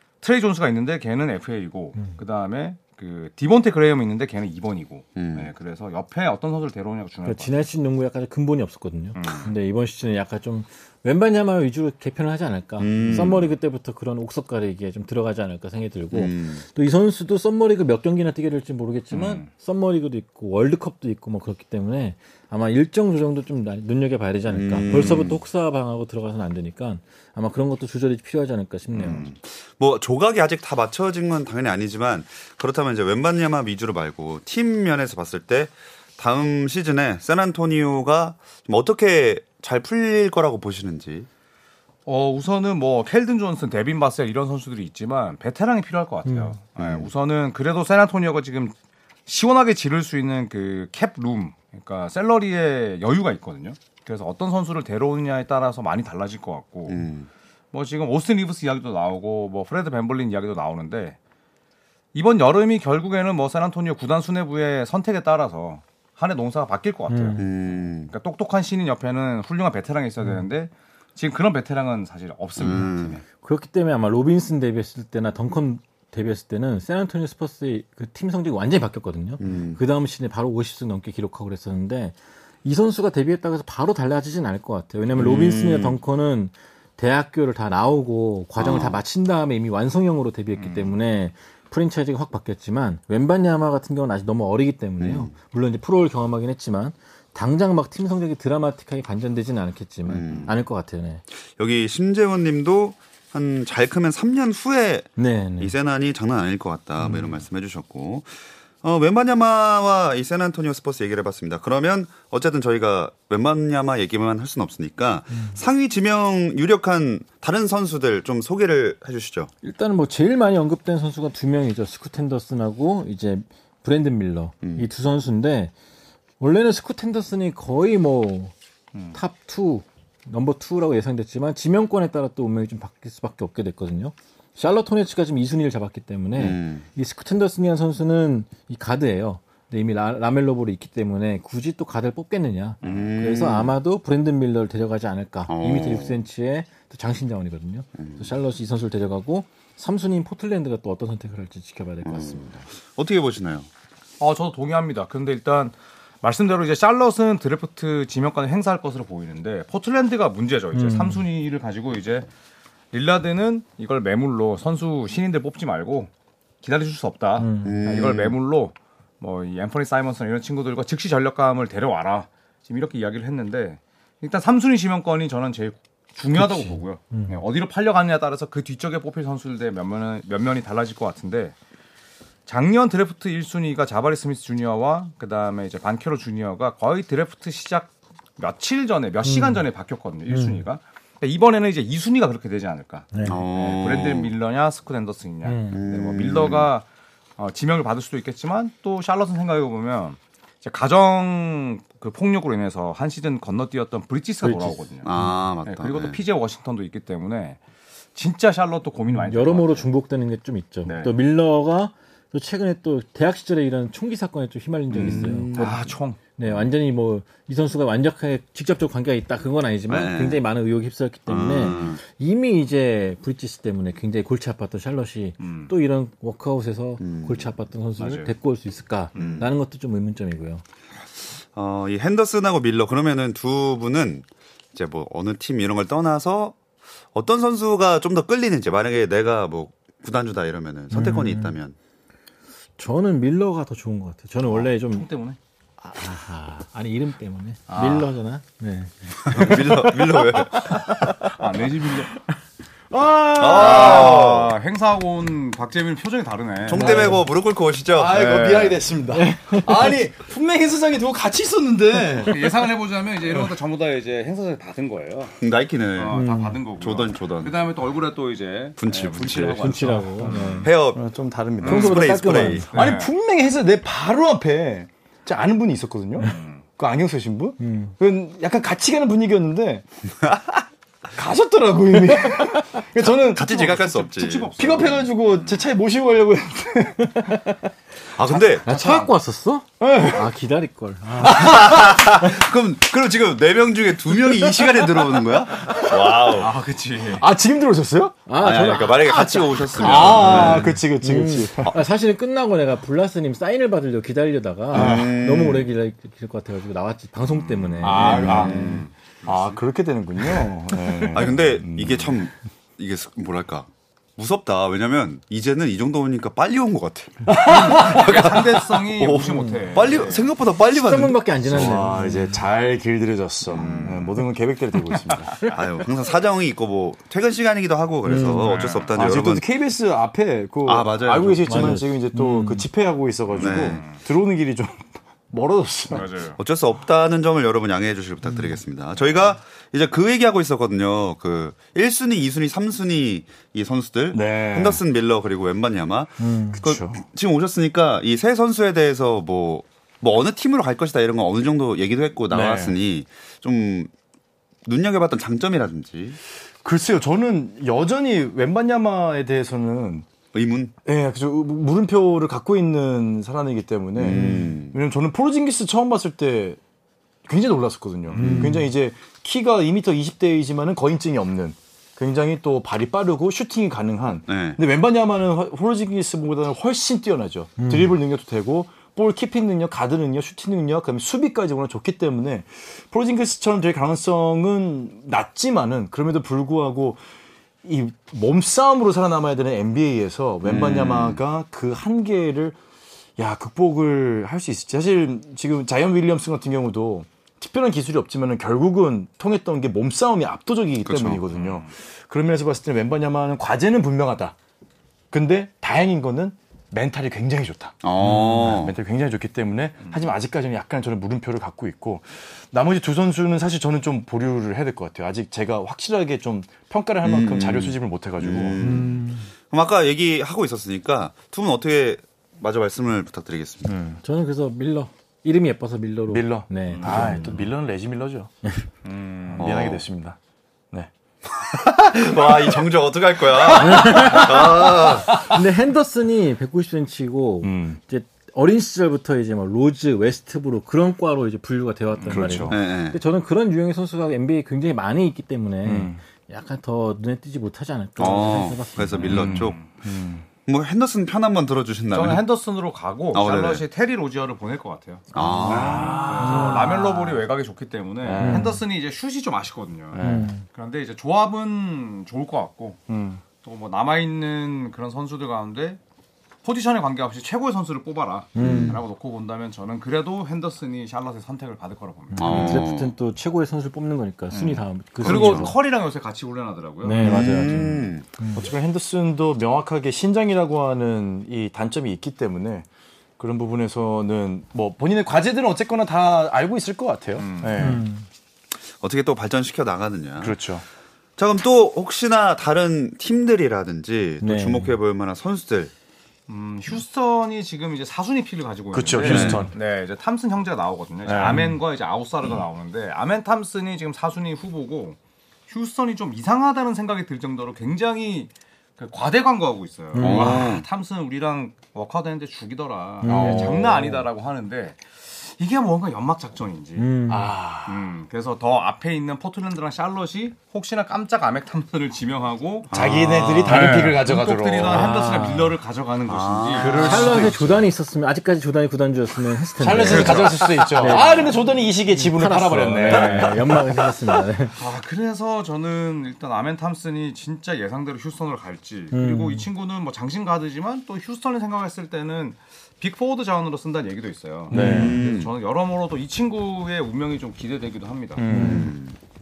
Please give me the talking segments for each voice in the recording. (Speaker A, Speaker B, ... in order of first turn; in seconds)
Speaker A: 0.2-7.6, 9.2-9.5, 13.0-13.3, 19.1-19.5, 42.0-48.7, 49.2-57.0, 57.7-61.1, 62.1-73.2, 90.6-90.9, 142.8-143.1, 154.2-162.3, 162.9-166.1, 166.6-181.5, 182.5-196.8, 197.4-205.1, 205.6-207.6, 208.1-209.9, 210.8-211.1, 215.2-216.2, 225.4-225.7, 228.0-228.3, 229.1-229.4, 244.5-245.4, 247.7-248.1, 251.2-252.1, 253.4-257.1, 258.1-258.9, 262.2-265.4, 265.9-270.7, 271.6-273.1, 276.2-276.6, 283.5-285.1, 288.7-289.0, 296.2-297.2, 300.2-300.7, 307.8-309.6, 317.4-320.3, 323.5-324.1, 328.3-328.9, 333.3-334.0, 335.9-336.4, 401.3-401.7, 426.7-427.3, 428.8-429.5, 449.2-449.6, 451.9-462.8, 463.4-465.8, 466.4-472.6, 474.3-477.2, 487.1-487.8, 496.3-516.9, 517.6-522.7, 523.4-527.3, 529.8-531.4, 532.8-533.4, 534.5-548.3
Speaker B: 5.2-5.5, 12.8-13.5, 16.1-16.6, 24.5-25.4, 28.9-41.3, 46.8-47.1, 56.9-57.3, 67.4-68.1, 72.6-73.2, 79.4-79.8, 85.1-86.0, 88.6-89.0, 95.0-95.3, 100.1-100.6, 101.6-119.5, 136.3-136.8, 142.8-143.7, 145.5-146.2, 148.0-148.2, 152.0-153.7, 167.6-168.3, 193.2-194.3, 195.7-196.7, 205.0-206.2, 214.9-215.9, 219.9-220.4, 221.3-222.0, 227.0-227.5, 229.1-229.5, 231.5-236.6, 237.1-241.8, 249.2-251.0, 253.4-254.5, 256.6-258.3, 265.4-266.2, 266.8-267.6, 268.8-270.0, 270.6-271.0, 271.6-272.7, 280.2-280.5, 283.1-285.0, 288.1-288.9, 291.2-296.6, 298.4-300.8, 304.7-305.7, 307.9-308.9, 311.1-321.8, 323.5-324.2, 325.4-329.4, 330.6-331.8, 333.4-333.8, 336.3-353.9, 354.6-356.2, 360.3-360.7, 363.9-364.8, 368.1-368.5, 374.3-374.6, 390.4-391.2, 400.8-401.2, 407.8-408.8, 417.0-423.8, 429.4-429.8, 431.3-435.2, 442.4-443.0, 448.0-449.6, 450.4-452.2, 453.1-453.6, 455.1-456.2, 468.4-468.8, 472.2-472.9, 475.0-475.5, 477.0-478.1, 488.8-490.4, 491.2-495.7, 499.0-499.5, 510.0-510.7, 522.7-523.8, 526.1-527.2, 544.5-545.3, 548.3-549.0
Speaker C: 7.2-29.2, 46.2-46.5, 67.1-67.4, 73.4-101.2, 105.2-105.7, 107.0-107.4, 119.6-125.7, 126.4-128.5, 129.1-152.6, 160.7-161.2, 167.4-167.8, 176.3-177.4, 189.2-189.6, 190.3-190.6, 193.1-193.4, 195.4-195.8, 204.4-205.3, 209.1-230.6, 240.9-241.6, 242.8-245.1, 245.8-251.3, 256.8-257.2, 259.1-259.9, 266.1-266.6, 269.6-270.7, 271.6-272.7, 277.6-277.9, 287.1-287.4, 288.5-292.4, 298.3-308.5, 319.2-319.6, 320.7-322.4, 328.0-328.6, 331.4-332.7, 346.2-346.6, 364.1-364.6, 368.1-368.7, 377.6-377.9, 418.6-419.3, 424.0-427.4, 433.6-449.3, 455.2-456.6, 458.2-458.6, 460.0-460.4, 468.3-468.8, 472.1-475.5, 476.8-478.5, 487.6-488.1, 494.2-494.7, 501.2-501.5, 509.9-510.5, 513.0-514.0, 516.8-517.3, 523.6-523.9, 524.6-525.5, 526.8-534.6, 538.9-539.5, 544.5-545.0, 548.3-548.7
Speaker D: 252.9-254.1, 256.8-257.1, 257.9-262.4, 270.9-279.8, 281.1-283.8, 284.6-287.4, 289.8-290.3, 291.2-291.5, 297.1-298.2, 299.8-301.7, 304.7-305.1, 307.8-312.2, 317.3-318.1, 321.5-325.5, 328.9-336.1, 344.1-344.8, 346.6-347.0, 352.3-352.8, 356.6-360.1, 360.8-366.6, 367.2-387.0, 387.6-392.6, 393.2-404.3, 405.1-418.6, 423.7-424.0, 426.1-428.3, 429.3-430.2, 432.1-432.5, 433.3-435.3, 437.4-437.8, 442.1-442.6, 445.6-446.0, 449.0-450.2, 455.4-457.2, 458.0-458.6, 459.9-460.3, 462.9-463.2, 476.9-477.6, 478.3-482.7, 483.2-487.9, 490.2-490.6, 498.7-499.5, 501.1-501.4, 513.1-513.9, 517.1-517.9, 522.7-525.0, 526.5-527.6, 529.6-534.0, 544.5-545.0, 548.2-548.7